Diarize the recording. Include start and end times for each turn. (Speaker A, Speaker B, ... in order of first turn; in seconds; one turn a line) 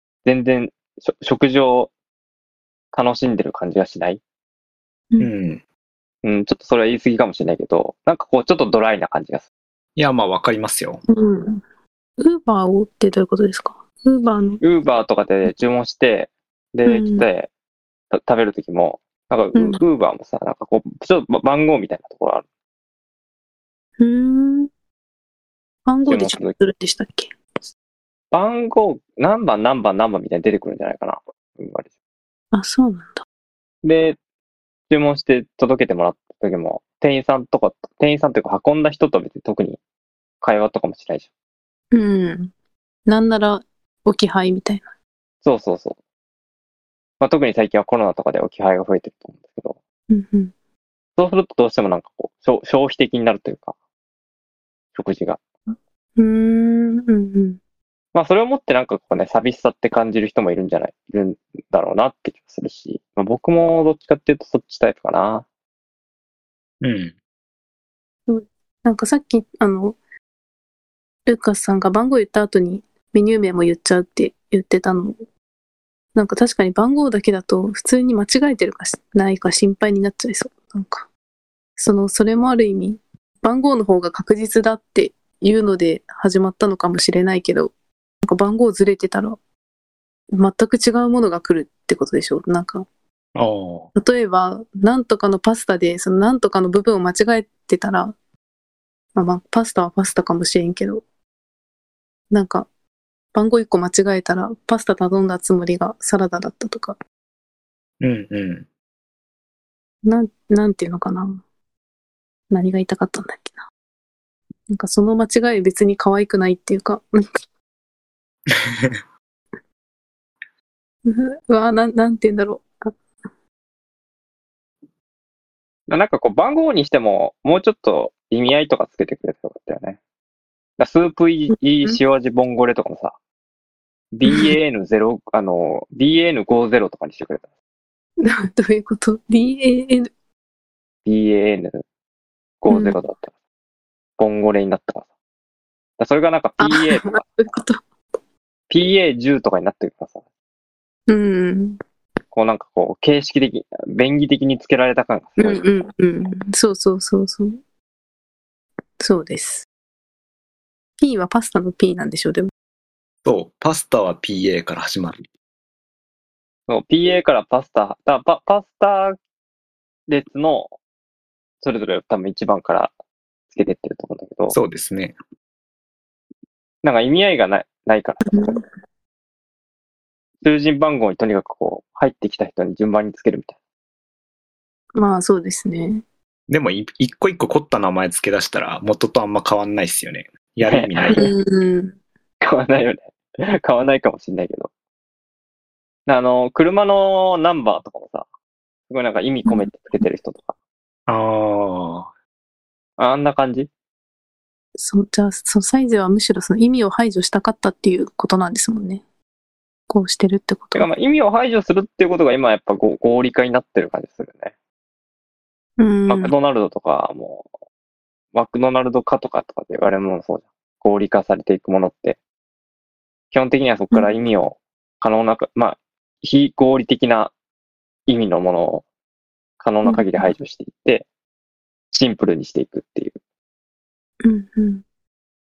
Speaker A: 0.2-1.9
Speaker A: 2.9-4.2
Speaker B: 5.2-5.6
Speaker A: 6.2-9.4
Speaker B: 9.9-11.0
Speaker C: 11.1-11.6
Speaker C: 12.2-14.6
Speaker A: 14.6-17.5
Speaker C: 16.9-17.2
Speaker A: 18.1-22.4
Speaker C: 19.5-19.8
Speaker C: 24.0-24.7
Speaker C: 25.9-27.3
Speaker A: 26.1-26.5
Speaker A: 28.3-31.9
Speaker C: 32.5-33.2
Speaker A: 33.8-34.2
Speaker A: 34.9-39.8
Speaker A: 40.4-41.3
Speaker C: 41.9-42.5
Speaker C: 43.0-44.9
Speaker A: 45.4-46.0
Speaker A: 47.2-49.8
Speaker C: 50.1-50.5
Speaker A: 51.2-53.7
Speaker A: 54.9-55.4
Speaker C: 56.2-57.6
Speaker A: 58.1-65.5
Speaker B: 66.8-67.2
Speaker C: 68.3-70.0
Speaker C: 71.2-75.2
Speaker C: 76.1-81.1
Speaker C: 81.8-89.4
Speaker C: 90.3-92.8
Speaker B: 93.3-93.9
Speaker C: 94.0-98.1
Speaker C: 99.1-101.0
Speaker C: 102.3-102.7
Speaker C: 103.3-107.0
Speaker B: 108.0-108.7
Speaker C: 110.0-111.4
Speaker C: 112.5-113.6
Speaker C: 114.7-117.4
Speaker B: 118.5-119.0
Speaker C: 121.0-122.9
Speaker A: 125.9-130.0
Speaker A: 130.8-133.2
Speaker C: 131.5-132.0
Speaker A: 134.1-137.5
Speaker C: 138.2-140.1
Speaker A: 141.0-141.8
Speaker A: 142.6-143.3
Speaker C: 142.7-143.0
Speaker A: 144.2-145.1
Speaker A: 146.0-147.2
Speaker C: 146.6-147.8
Speaker A: 148.7-150.2
Speaker C: 151.1-151.8
Speaker A: 152.3-155.6
Speaker C: 155.4-157.6
Speaker C: 159.0-159.7
Speaker C: 161.0-162.5
Speaker B: 163.2-165.2
Speaker A: 166.7-169.2
Speaker A: 170.1-170.7
Speaker A: 171.6-172.9
Speaker A: 173.5-174.6
Speaker B: 174.5-175.2
Speaker A: 176.8-178.4
Speaker C: 178.2-178.6
Speaker A: 180.4-183.6
Speaker C: 184.9-186.0
Speaker B: 186.5-191.3
Speaker A: 190.6-191.3
Speaker C: 191.1-192.0
Speaker A: 192.4-194.7
Speaker A: 196.1-198.3
Speaker A: 198.9-200.5
Speaker C: 199.4-199.7
Speaker B: 201.1-202.1
Speaker A: 203.0-203.7
Speaker C: 204.8-209.0
Speaker C: 209.9-210.9
Speaker A: 210.7-214.5
Speaker C: 215.8-216.3
Speaker A: 216.1-217.5
Speaker A: 218.3-222.2
Speaker A: 223.3-227.3
Speaker A: 228.1-228.8
Speaker A: 229.6-231.1
Speaker C: 229.8-230.3
Speaker A: 231.9-233.2
Speaker C: 234.2-234.8